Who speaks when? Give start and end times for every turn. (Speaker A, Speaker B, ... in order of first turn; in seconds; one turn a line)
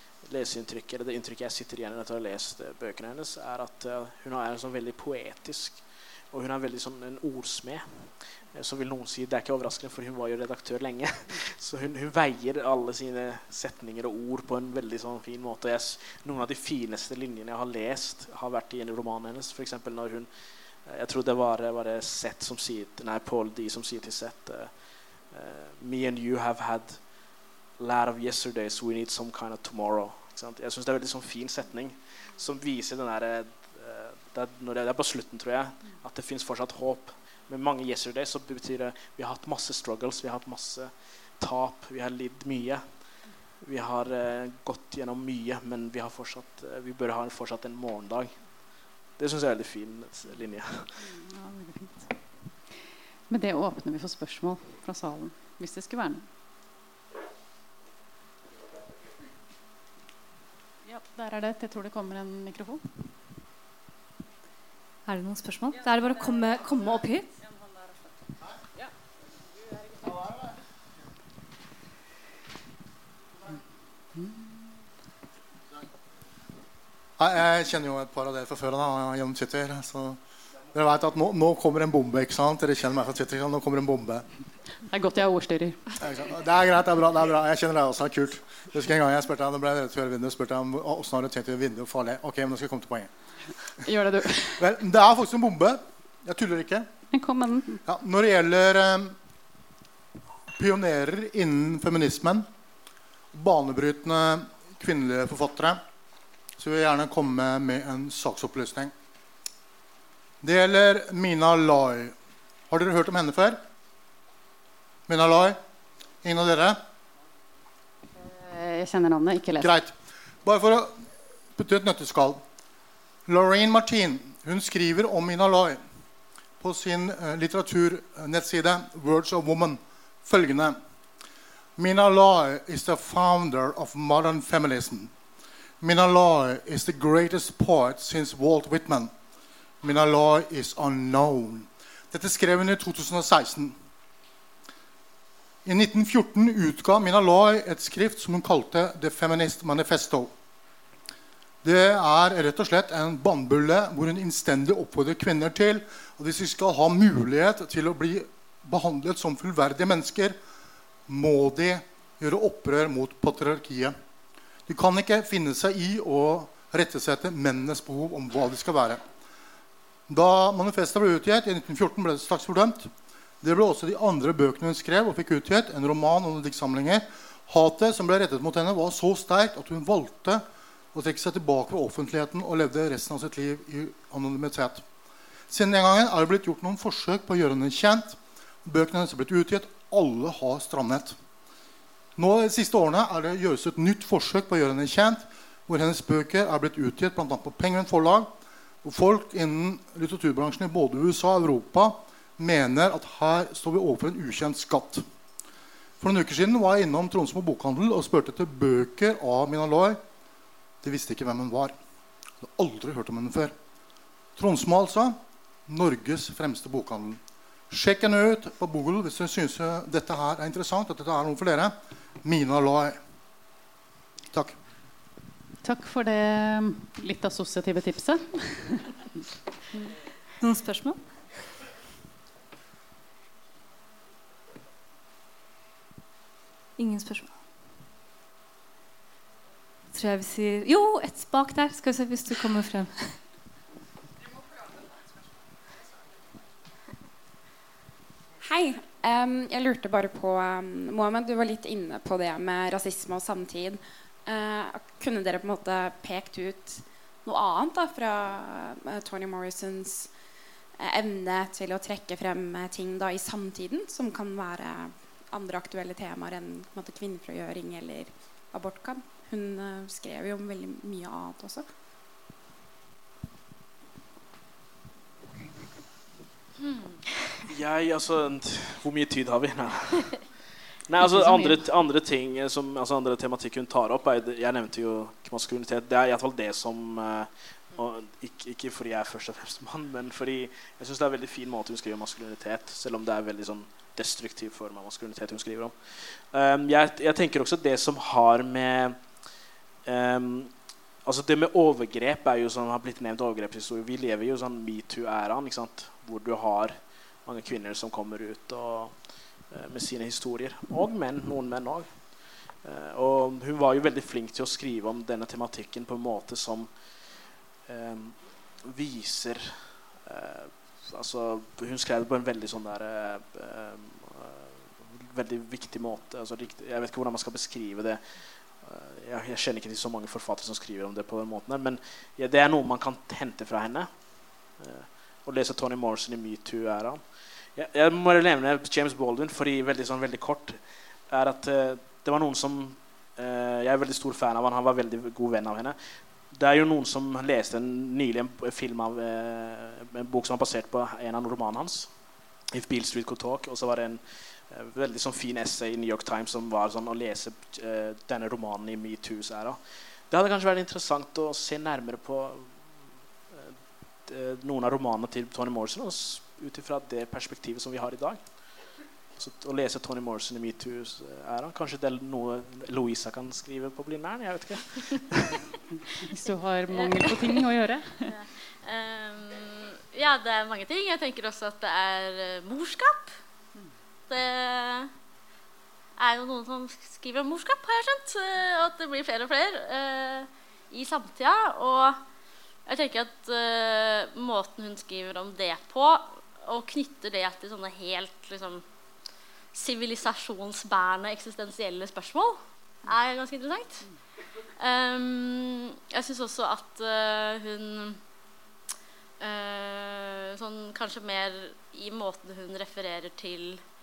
Speaker A: 0.2-20.3
Speaker A: 20.8-24.7
Speaker A: 25.3-27.0
Speaker A: 27.8-42.8
Speaker A: 43.6-48.4
Speaker A: 49.2-51.0
Speaker B: 51.1-52.1
Speaker B: 53.3-56.2
Speaker B: 60.8-62.9
Speaker C: 65.0-67.3
Speaker D: 77.2-80.2
Speaker D: 80.7-84.2
Speaker B: 84.9-85.9
Speaker D: 86.0-93.1
Speaker B: 93.8-94.7
Speaker D: 94.6-96.9
Speaker B: 97.1-97.8
Speaker D: 97.8-99.2
Speaker D: 100.5-102.5
Speaker D: 103.3-105.8
Speaker D: 106.6-108.9
Speaker D: 110.4-112.1
Speaker D: 112.7-113.6
Speaker D: 115.1-115.6
Speaker D: 116.2-116.8
Speaker B: 118.3-119.7
Speaker D: 119.6-119.9
Speaker D: 120.4-121.0
Speaker D: 121.6-122.4
Speaker D: 123.3-125.8
Speaker D: 126.6-130.8
Speaker D: 131.8-135.1
Speaker D: 135.8-139.1
Speaker D: 139.8-143.7
Speaker D: 145.6-150.3
Speaker D: 151.6-160.3
Speaker D: 161.1-163.9
Speaker D: 164.7-169.0
Speaker D: 170.1-172.9
Speaker D: 173.4-184.8
Speaker D: 185.5-191.1
Speaker D: 192.2-198.3
Speaker D: 198.8-205.0
Speaker D: 206.0-210.0
Speaker D: 210.8-211.7
Speaker D: 212.4-213.5
Speaker D: 214.4-223.0
Speaker B: 225.6-228.9
Speaker C: 230.4-231.0
Speaker C: 236.8-237.5
Speaker C: 239.9-243.2
Speaker E: 248.4-260.1
Speaker E: 260.8-271.7
Speaker F: 276.6-277.0
Speaker A: 277.4-280.2
Speaker A: 280.9-299.0
Speaker A: 299.8-300.5
Speaker A: 301.0-308.9
Speaker A: 309.5-311.9
Speaker A: 312.6-316.7
Speaker A: 317.7-328.0
Speaker A: 328.6-333.9
Speaker A: 334.6-337.0
Speaker A: 337.5-345.8
Speaker A: 346.3-351.9
Speaker A: 352.5-359.6
Speaker A: 360.1-362.7
Speaker A: 363.3-368.2
Speaker A: 369.2-375.4
Speaker B: 376.0-378.1
Speaker F: 376.7-377.1
Speaker F: 378.1-383.2
Speaker F: 384.1-384.9
Speaker F: 386.0-392.0
Speaker F: 392.6-398.6
Speaker F: 399.5-403.9
Speaker F: 404.6-408.0
Speaker F: 409.2-413.6